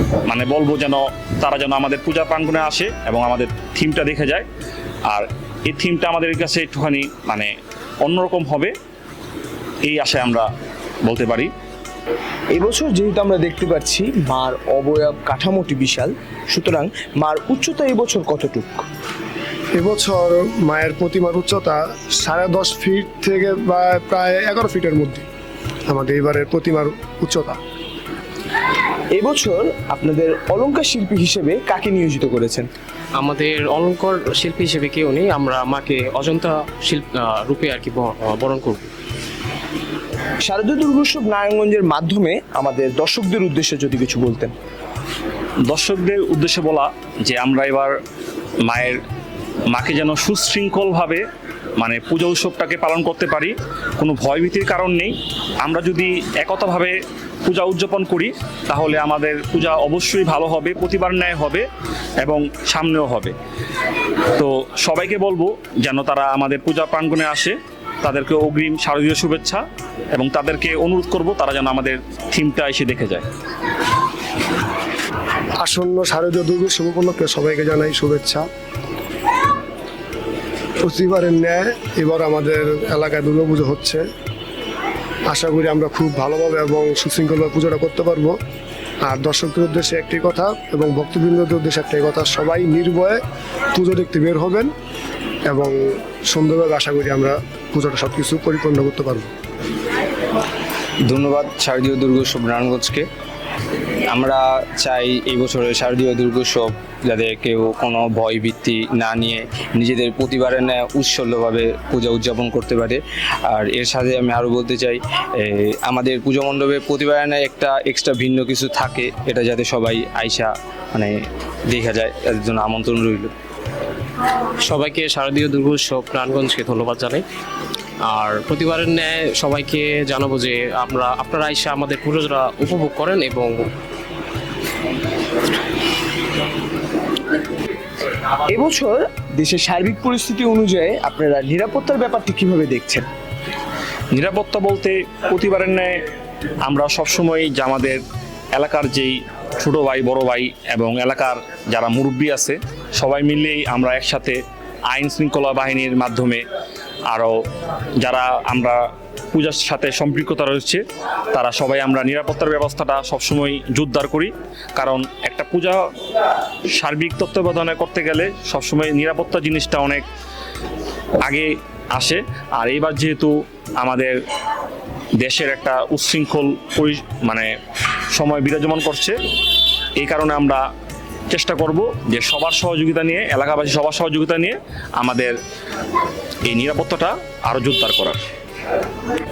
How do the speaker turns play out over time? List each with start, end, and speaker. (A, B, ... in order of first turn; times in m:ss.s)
0:00.3-0:04.5 A
0:05.1-0:07.5 A
0:08.0-0:08.7 A
0:09.8-0:10.5 A
0:11.0-0:11.5 A
0:12.5-0:18.8 B
0:19.8-0:25.2 C
0:25.9-0:27.6 C
0:29.1-0:32.7 B
0:33.2-0:38.9 D
0:40.4-0:44.5 B
0:45.7-0:47.9 A
0:48.6-0:49.0 A
0:49.7-0:51.2 A
0:51.8-1:01.7 A
1:02.2-1:03.3 A
1:04.4-1:13.2 A
1:15.6-1:18.5 C
1:20.8-1:24.0 C
1:25.3-1:28.4 C
1:29.0-1:33.2 C
1:33.8-1:34.7 C
1:35.5-1:35.8 C
1:36.3-1:39.3 C
1:41.1-1:43.1 E
1:44.1-2:03.3 E
2:04.6-2:07.2 D
2:08.1-2:13.7 D
2:18.5-2:23.1 B
2:24.1-2:25.9 A
2:26.7-2:28.0 A
2:28.6-2:34.4 A
2:34.9-2:36.4 A
2:38.0-2:45.8 A
2:46.8-2:50.0 A
2:51.2-2:54.2 A
2:55.2-2:57.5 A
2:58.1-2:59.2 A
3:00.0-3:00.6 A
3:01.3-3:05.4 A
3:06.5-3:08.3 A